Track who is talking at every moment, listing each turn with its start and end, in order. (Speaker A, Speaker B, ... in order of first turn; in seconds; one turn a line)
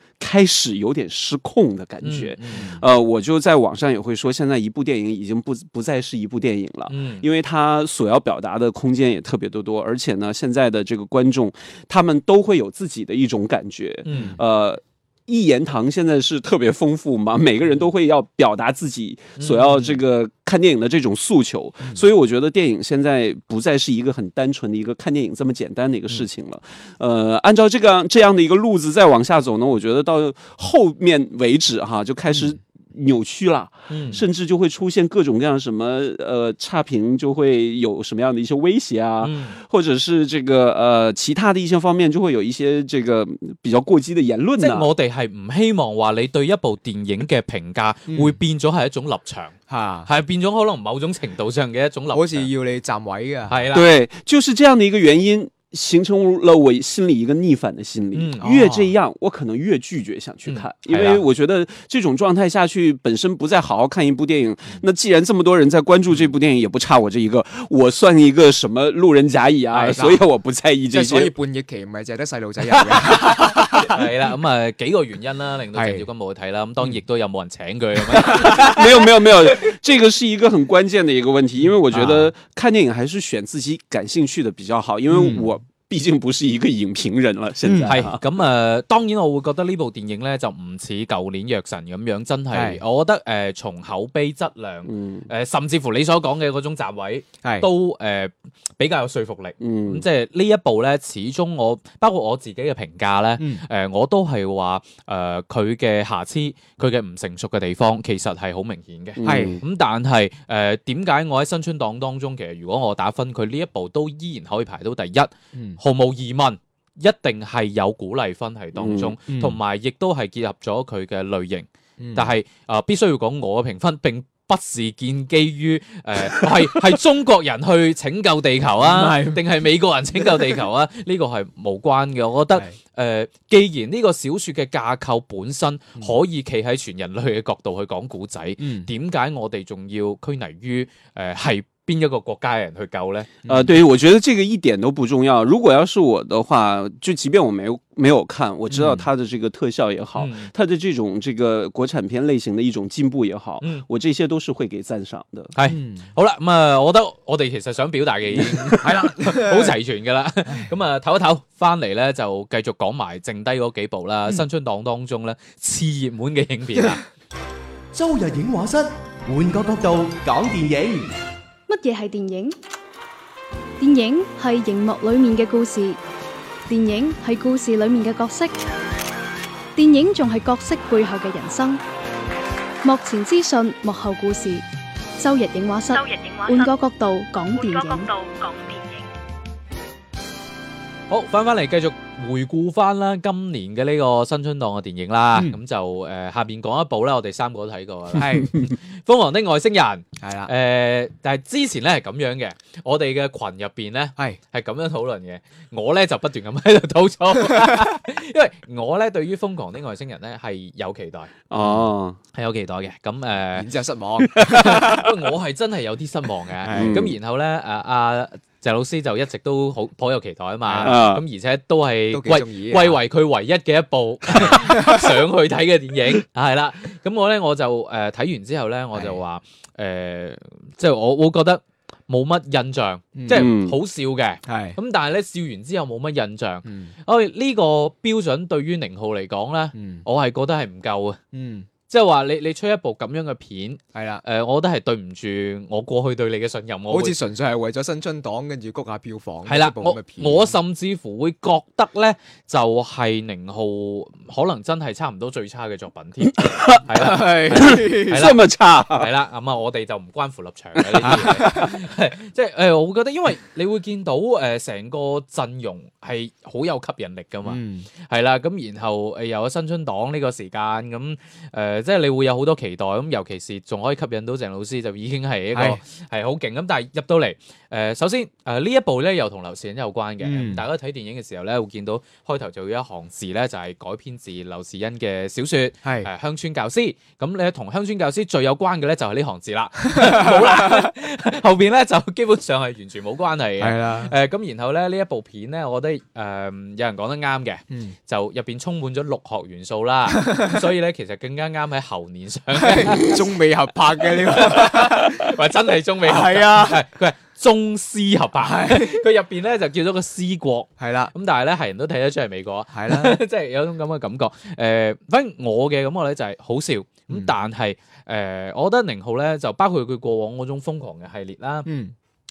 Speaker A: 0.2-44.9
Speaker B: 2.0-2.7
Speaker C: 2.5-2.8
Speaker B: 6.9-7.2
Speaker B: 14.0-14.4
Speaker C: 14.1-14.4
Speaker B: 19.4-20.0
Speaker B: 33.9-34.2
Speaker B: 39.2-39.6
Speaker B: 44.6-49.5
Speaker C: 48.1-48.4
Speaker C: 49.7-50.1
Speaker B: 50.0-52.5
Speaker C: 52.1-53.6
Speaker B: 53.5-53.9
Speaker A: 53.7-71.3
Speaker B: 58.1-58.5
Speaker C: 58.4-58.9
Speaker B: 60.5-61.2
Speaker B: 69.7-70.1
Speaker C: 69.8-70.2
Speaker C: 70.9-74.1
Speaker B: 72.9-79.7
Speaker C: 75.7-76.1
Speaker A: 78.1-88.2
Speaker C: 81.9-82.3
Speaker C: 85.1-85.5
Speaker C: 87.6-88.0
Speaker B: 87.9-143.3
Speaker C: 92.5-92.8
Speaker A: 94.8-95.3
Speaker C: 97.4-97.7
Speaker A: 99.6-100.0
Speaker C: 103.4-103.6
Speaker A: 109.2-109.6
Speaker C: 109.2-109.6
Speaker A: 118.8-119.1
Speaker C: 119.3-119.6
Speaker C: 122.0-122.3
Speaker C: 128.8-129.4
Speaker C: 138.6-138.9
Speaker C: 143.4-143.8
Speaker A: 143.5-155.5
Speaker C: 148.7-149.1
Speaker B: 150.2-150.5
Speaker B: 155.5-167.0
Speaker C: 155.6-156.1
Speaker A: 158.4-158.8
Speaker C: 158.8-159.8
Speaker D: 167.9-171.1
Speaker E: 171.7-172.5
Speaker E: 173.8-176.0
Speaker E: 176.7-178.6
Speaker E: 179.8-181.8
Speaker E: 182.8-184.6
Speaker E: 185.2-188.1
Speaker F: 185.9-186.7
Speaker F: 187.5-189.1
Speaker B: 191.1-211.3
Speaker C: 195.3-195.6
Speaker C: 198.2-198.5
Speaker C: 200.2-200.5
Speaker A: 211.5-212.2
Speaker C: 211.6-211.9
Speaker B: 212.3-213.7
Speaker C: 213.5-215.1
Speaker B: 214.2-241.2
Speaker C: 216.6-217.1
Speaker A: 216.7-217.1
Speaker C: 220.6-221.0
Speaker A: 220.8-221.2
Speaker C: 222.1-223.0
Speaker C: 224.3-225.2
Speaker C: 228.9-229.2
Speaker C: 233.1-233.5
Speaker A: 233.3-233.8
Speaker C: 234.5-234.8
Speaker C: 236.6-236.9
Speaker C: 239.7-240.0
Speaker C: 241.3-241.7
Speaker B: 241.9-247.2
Speaker C: 243.9-244.2
Speaker C: 246.9-250.5
Speaker B: 249.4-303.3
Speaker A: 256.3-256.8
Speaker C: 256.9-258.3
Speaker A: 257.5-259.1
Speaker A: 261.0-261.4
Speaker C: 261.0-261.7
Speaker C: 267.4-267.9
Speaker C: 275.5-275.8
Speaker C: 280.2-280.6
Speaker C: 285.8-286.1
Speaker C: 289.9-290.9
Speaker C: 293.6-294.1
Speaker C: 300.2-300.6
Speaker C: 302.6-305.3
Speaker B: 304.0-321.7
Speaker C: 306.0-306.8
Speaker C: 308.4-309.0
Speaker C: 310.8-311.1
Speaker C: 312.7-313.2
Speaker C: 321.6-321.9